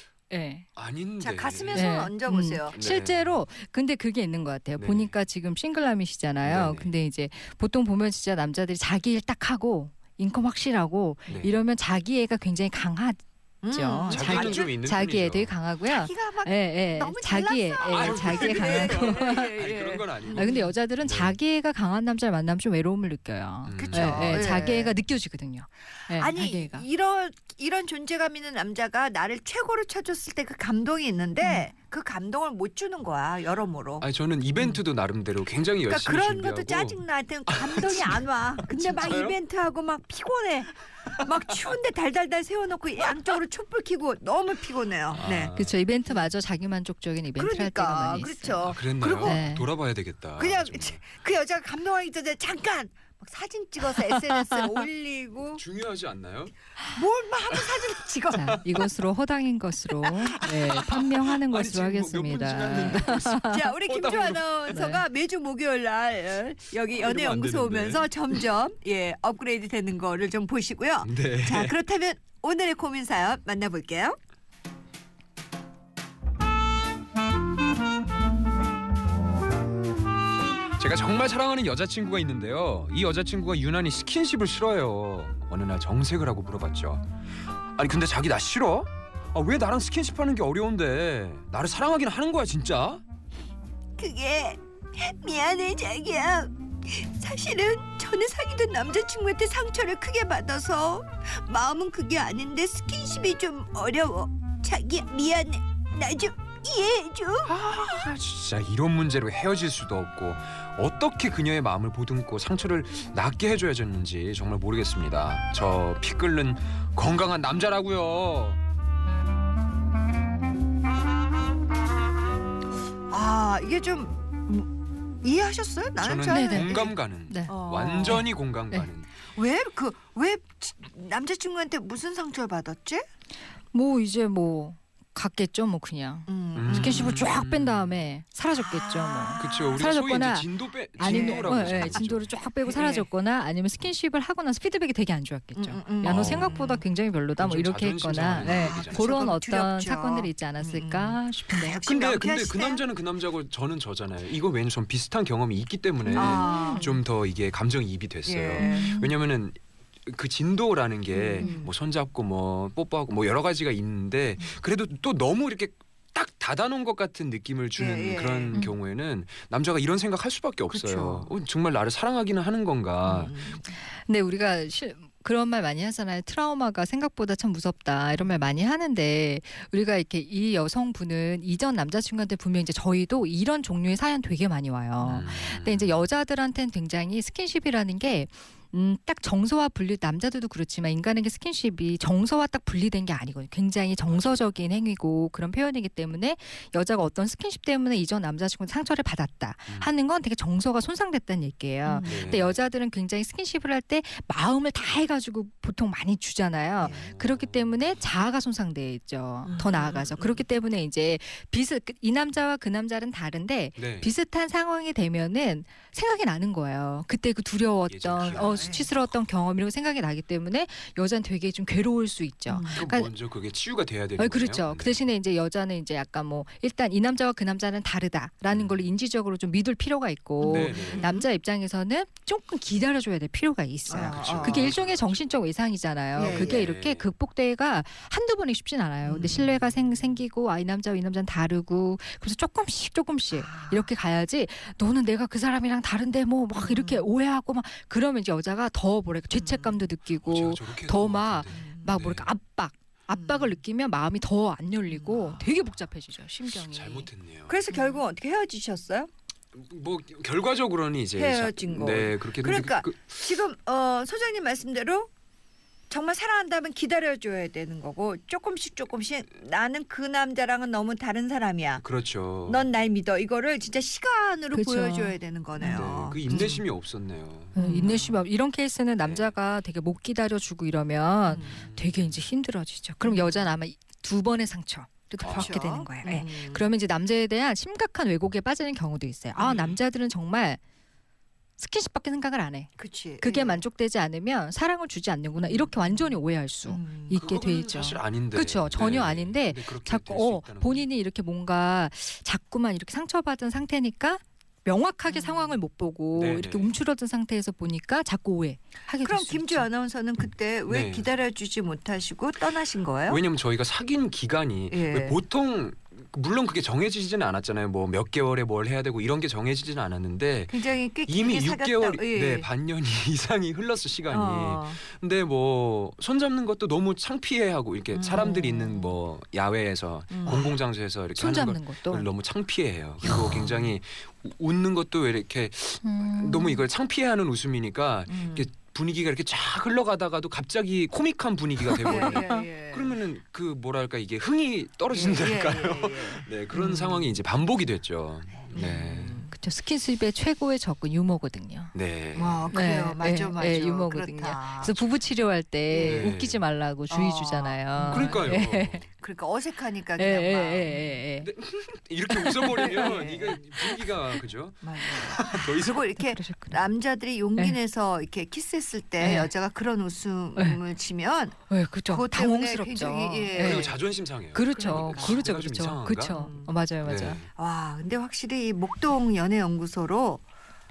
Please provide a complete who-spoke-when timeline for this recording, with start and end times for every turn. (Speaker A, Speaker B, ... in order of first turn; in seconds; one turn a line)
Speaker A: 0.3-0.7
Speaker B: 0.8-2.0
Speaker C: 1.2-2.8
Speaker A: 1.7-19.5
Speaker B: 2.7-3.4
Speaker B: 4.8-5.1
Speaker B: 6.4-6.9
Speaker B: 11.3-11.6
Speaker C: 13.6-14.8
Speaker B: 14.1-15.6
Speaker C: 15.9-20.7
Speaker B: 17.9-21.4
Speaker A: 20.4-26.9
Speaker B: 23.6-24.6
Speaker C: 23.7-25.0
Speaker C: 26.1-34.0
Speaker B: 34.0-39.4
Speaker C: 35.9-45.5
Speaker B: 45.1-45.8
Speaker A: 45.5-49.7
Speaker C: 47.4-49.5
Speaker B: 48.6-51.0
Speaker C: 50.4-55.6
Speaker B: 55.6-56.6
Speaker C: 56.9-58.6
Speaker B: 57.5-58.9
Speaker A: 58.4-63.6
Speaker C: 60.3-60.6
Speaker B: 60.4-64.7
Speaker C: 62.9-74.2
Speaker A: 64.7-65.0
Speaker B: 67.0-68.4
Speaker B: 71.0-71.8
Speaker B: 80.8-87.1
Speaker B: 87.8-93.0
Speaker C: 94.0-107.5
Speaker B: 107.5-118.6
Speaker C: 123.1-124.7
Speaker C: 125.2-128.3
Speaker B: 126.0-129.1
Speaker A: 126.3-127.5
Speaker A: 128.1-128.9
Speaker C: 129.3-133.1
Speaker A: 133.7-151.8
Speaker C: 136.3-137.3
Speaker B: 136.6-137.9
Speaker C: 138.6-139.8
Speaker B: 139.4-142.3
Speaker C: 141.0-142.0
Speaker C: 142.7-143.1
Speaker C: 145.6-146.8
Speaker B: 146.0-146.6
Speaker B: 147.4-149.1
Speaker C: 148.3-152.8
Speaker B: 151.9-173.3
Speaker A: 156.1-157.0
Speaker C: 156.1-157.0
Speaker C: 158.3-158.9
Speaker A: 158.6-159.2
Speaker C: 161.1-161.7
Speaker C: 167.8-168.7
Speaker C: 170.7-171.3
Speaker C: 173.0-173.7
Speaker A: 173.7-223.1
Speaker B: 185.0-186.0
Speaker B: 194.1-194.4
Speaker C: 201.8-202.4
Speaker B: 202.0-202.6
Speaker C: 206.8-207.1
Speaker B: 206.8-208.0
Speaker C: 209.4-210.4
Speaker B: 213.8-214.1
Speaker B: 217.9-219.1
Speaker C: 218.1-218.9
Speaker C: 222.5-222.8
Speaker B: 222.8-225.0
Speaker A: 224.2-257.1
Speaker B: 228.5-228.9
Speaker C: 230.4-231.3
Speaker B: 230.4-231.1
Speaker C: 233.9-234.7
Speaker B: 234.0-235.4
Speaker C: 236.2-236.7
Speaker B: 236.2-237.1
Speaker C: 239.0-239.9
Speaker C: 243.3-243.9
Speaker C: 246.6-247.1
Speaker C: 249.3-249.8
Speaker B: 250.2-252.3
Speaker C: 251.5-252.0
Speaker C: 253.1-253.6
Speaker C: 254.9-255.5
Speaker B: 256.6-257.6
Speaker C: 257.5-259.1
Speaker B: 259.5-263.2
Speaker C: 261.1-265.1
Speaker C: 265.9-271.9
Speaker B: 271.8-272.6
Speaker C: 272.5-276.6
Speaker A: 274.5-275.2
Speaker B: 275.6-278.0
Speaker C: 277.6-278.2
Speaker A: 277.6-290.6
Speaker B: 279.0-279.3
Speaker C: 281.2-281.6
Speaker B: 281.4-282.3
Speaker C: 283.0-283.5
Speaker B: 285.2-285.5
Speaker C: 285.3-286.7
Speaker C: 289.4-289.8
Speaker A: 291.6-309.7
Speaker C: 292.8-293.6
Speaker C: 295.4-297.2
Speaker B: 297.1-300.9
Speaker C: 305.1-305.6
Speaker B: 306.1-306.8
Speaker C: 309.0-313.2
Speaker B: 310.7-311.1
Speaker B: 313.1-349.2
Speaker C: 314.7-315.2
Speaker C: 320.5-322.5
Speaker C: 324.1-324.8
Speaker C: 327.9-329.0
Speaker C: 330.1-330.5
Speaker A: 331.1-332.1
Speaker C: 333.2-333.7
Speaker A: 335.8-336.6
Speaker C: 338.1-338.5
Speaker A: 341.7-342.4
Speaker C: 341.8-343.0
Speaker C: 344.9-347.1
Speaker C: 348.5-349.3
Speaker A: 349.3-351.7
Speaker B: 351.7-352.5
Speaker C: 352.2-354.8
Speaker A: 352.5-358.8
Speaker C: 355.7-356.1
Speaker B: 355.8-356.4
Speaker C: 356.9-358.3
Speaker B: 357.9-358.9
Speaker C: 358.9-361.0
Speaker A: 360.0-361.3
Speaker B: 361.2-365.9
Speaker A: 362.3-362.9
Speaker C: 362.5-363.5
Speaker C: 364.6-373.8
Speaker A: 366.1-366.6
Speaker A: 369.0-369.3
Speaker A: 371.5-373.7
Speaker B: 373.4-376.2
Speaker A: 374.2-377.2
Speaker C: 374.5-375.2
Speaker C: 376.1-376.5
Speaker B: 376.8-377.3
Speaker C: 377.4-380.2